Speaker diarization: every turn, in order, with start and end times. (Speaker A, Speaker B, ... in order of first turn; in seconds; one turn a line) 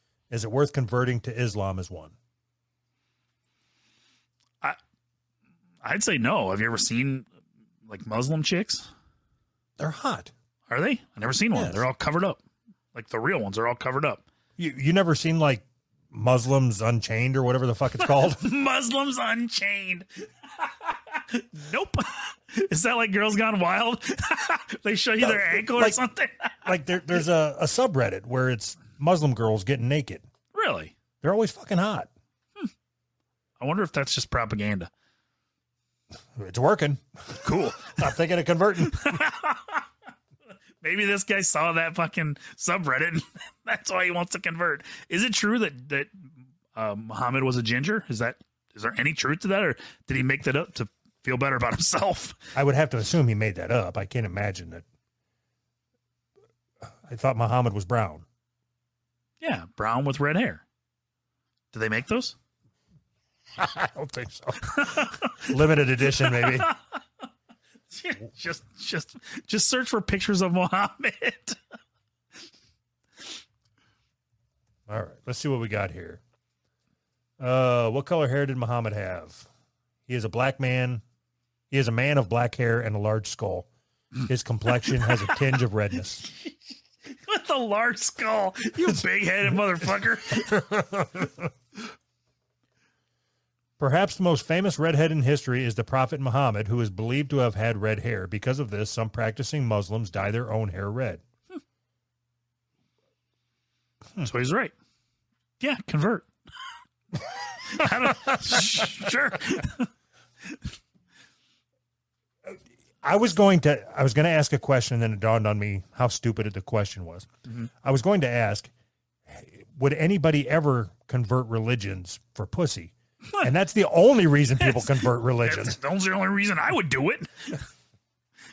Speaker A: 0.3-2.1
Speaker B: 5.8-7.3
Speaker B: 7.8-8.9
Speaker A: 9.8-10.3
Speaker B: 10.7-12.4
Speaker A: 11.5-11.8
Speaker B: 12.9-14.2
Speaker A: 14.6-18.5
Speaker B: 18.0-26.7
Speaker A: 25.2-26.0
Speaker A: 26.6-30.2
Speaker B: 30.5-30.9
Speaker A: 31.2-32.1
Speaker B: 33.6-34.9
Speaker A: 36.4-39.2
Speaker B: 37.4-38.1
Speaker B: 38.8-39.9
Speaker B: 40.8-52.4
Speaker A: 52.5-54.8
Speaker A: 57.0-58.2
Speaker B: 59.4-60.6
Speaker B: 61.7-62.4
Speaker A: 63.6-66.7
Speaker B: 64.7-65.5
Speaker B: 66.2-66.8
Speaker B: 67.9-71.6
Speaker A: 74.9-76.2
Speaker A: 77.4-79.5
Speaker A: 80.1-81.0
Speaker A: 81.7-83.7
Speaker A: 84.2-86.2
Speaker B: 87.0-90.7
Speaker A: 90.4-91.4
Speaker A: 93.8-101.2
Speaker B: 104.2-104.7
Speaker B: 105.6-106.3
Speaker B: 107.2-109.9
Speaker A: 107.9-108.3
Speaker A: 112.5-117.3
Speaker A: 117.8-118.7
Speaker A: 119.3-125.8
Speaker B: 124.6-127.6